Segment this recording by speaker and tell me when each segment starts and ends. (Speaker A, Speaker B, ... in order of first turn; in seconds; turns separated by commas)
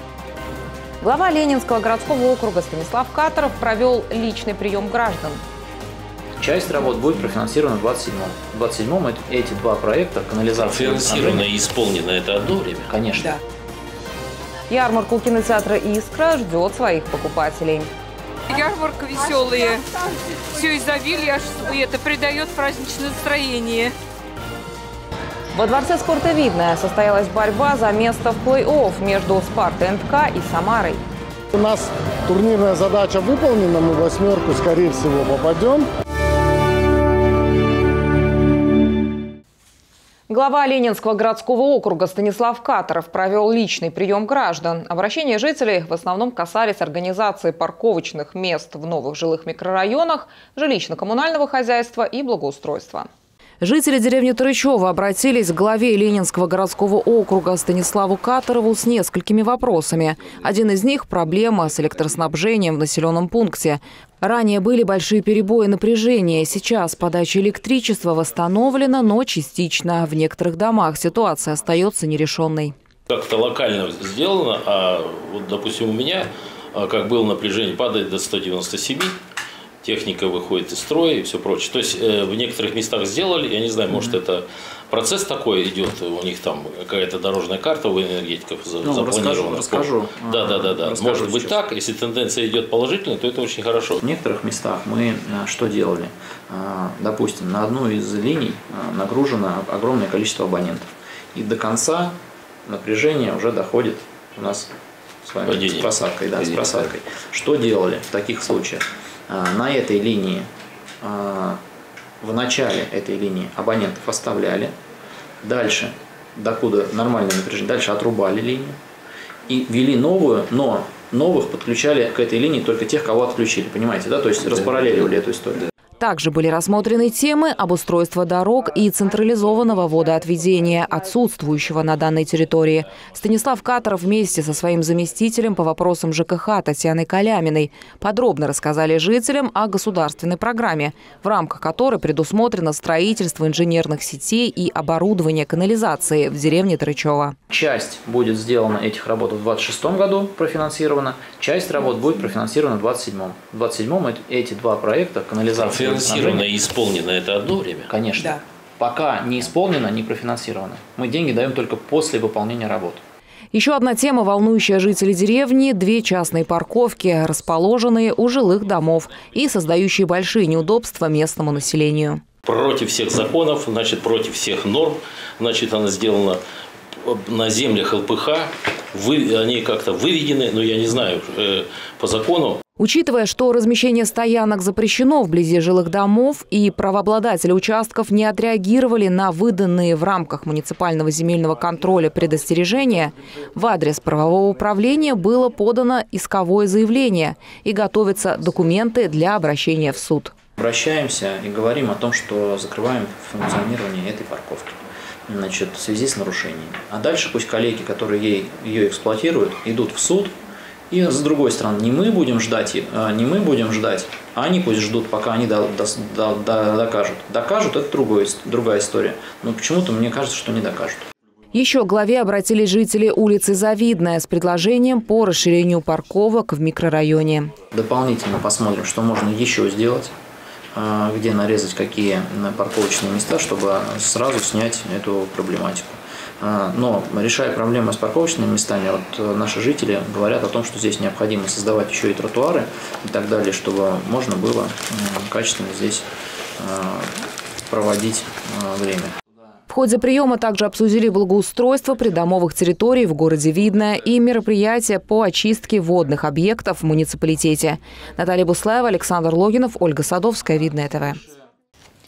Speaker A: 1.0-5.4, Speaker B: 6.4-11.5, Speaker C: 10.6-12.9, Speaker B: 12.9-13.4, Speaker A: 14.7-17.9, Speaker D: 18.5-19.9, Speaker D: 20.5-23.9, Speaker A: 25.5-31.0, Speaker E: 31.5-35.9, Speaker A: 40.3-53.1, Speaker A: 53.6-72.7, Speaker C: 73.1-79.2, Speaker C: 79.8-94.0, Speaker B: 83.9-84.2, Speaker B: 88.8-91.7, Speaker B: 94.0-104.7, Speaker B: 105.2-110.5, Speaker C: 105.5-106.9, Speaker B: 111.0-111.6, Speaker B: 112.2-114.7, Speaker B: 115.4-118.8, Speaker B: 119.5-125.6, Speaker A: 126.0-147.4, Speaker B: 147.5-156.5, Speaker C: 155.6-157.9, Speaker B: 157.9-163.0, Speaker A: 163.5-172.2, Speaker C: 172.4-176.4, Speaker C: 177.1-182.6, Speaker A: 182.8-200.3, Speaker B: 200.6-204.8, Speaker B: 205.3-210.3, Speaker B: 210.9-221.1, Speaker A: 221.5-227.5, Speaker B: 227.7-230.1, Speaker B: 230.8-246.1, Speaker B: 246.6-247.2, Speaker B: 247.7-249.1, Speaker A: 249.7-261.2